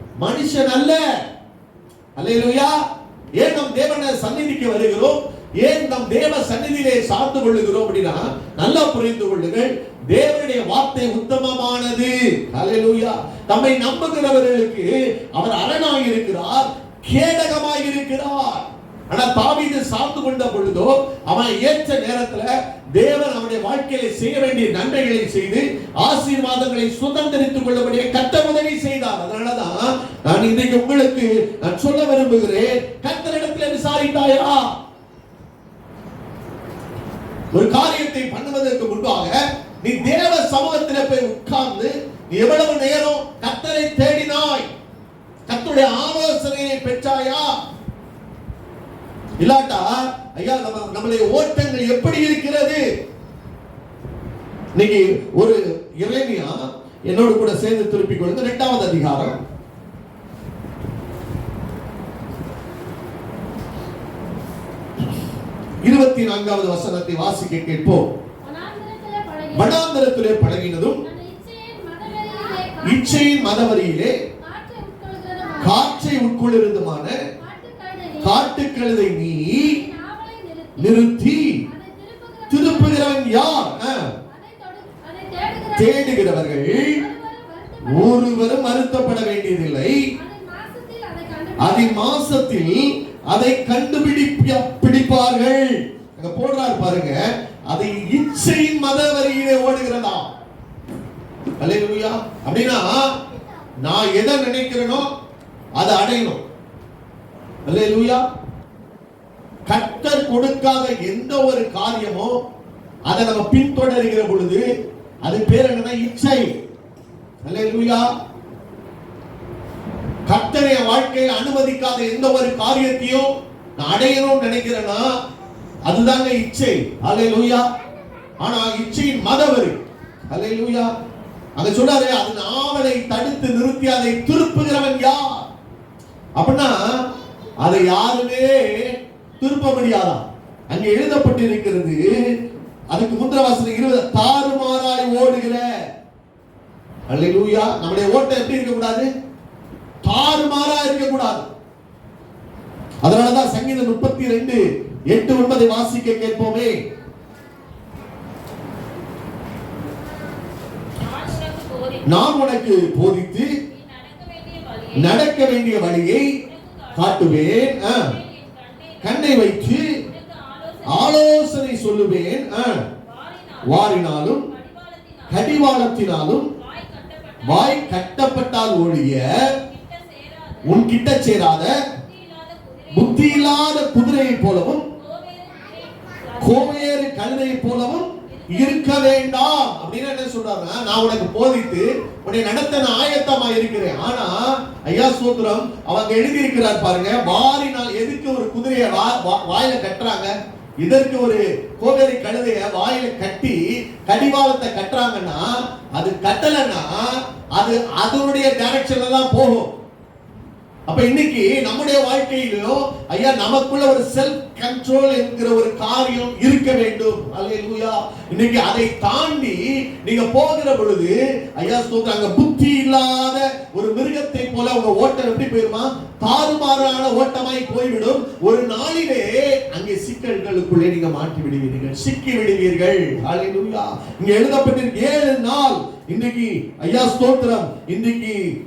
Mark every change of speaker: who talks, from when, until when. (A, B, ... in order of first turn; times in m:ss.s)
0:00.2-0:01.0 A
0:02.2-0:02.8 A
0:03.4-0:34.6 A
0:37.5-0:44.7 A
0:45.5-0:47.5 A
0:49.4-0:52.8 A
0:54.8-0:59.4 A
1:05.8-1:08.0 A
1:08.4-1:09.8 B
1:09.5-1:11.0 A
1:11.0-1:13.4 B
1:12.8-1:14.2 A
1:14.4-1:16.0 B
1:15.6-1:17.2 A
1:17.4-1:18.4 B
1:18.2-1:19.8 A
1:19.6-1:21.0 B
1:20.8-1:21.6 A
1:21.6-1:23.4 B
1:22.5-1:24.1 A
1:24.3-1:28.5 B
1:25.7-1:27.0 A
1:27.8-1:29.9 A
1:30.2-1:32.1 B
1:31.6-1:37.2 A
1:37.7-1:40.3 A
1:41.6-1:43.1 A
1:43.8-1:45.1 A
1:45.8-1:46.4 A
1:47.6-1:48.2 A
1:49.7-1:52.4 A
1:53.0-1:54.6 A
1:55.2-1:56.5 A
1:57.4-1:58.1 A
2:00.3-2:05.0 A
2:05.8-2:07.6 A
2:08.4-2:09.8 A
2:10.3-2:10.9 A
2:11.6-2:15.4 A
2:16.4-2:16.8 A
2:17.6-2:22.0 A
2:22.9-2:25.6 A
2:27.1-2:29.1 A
2:30.0-2:31.4 A
2:33.0-2:36.7 A
2:41.0-2:42.2 C
2:42.0-2:43.5 A
2:43.7-2:45.2 C
2:44.9-2:46.3 A
2:46.4-2:51.2 C
2:46.9-2:48.1 A
2:49.0-2:50.0 A
2:50.8-2:52.8 A
2:53.0-2:55.8 C
2:53.6-2:54.5 A
2:55.3-2:56.5 A
2:56.4-2:58.2 C
2:57.4-2:59.2 A
2:59.6-3:01.0 C
3:00.6-3:01.8 A
3:02.0-3:03.7 C
3:02.9-3:04.9 A
3:05.0-3:07.0 C
3:06.4-3:29.7 A
3:08.2-3:08.9 C
3:30.9-3:58.4 A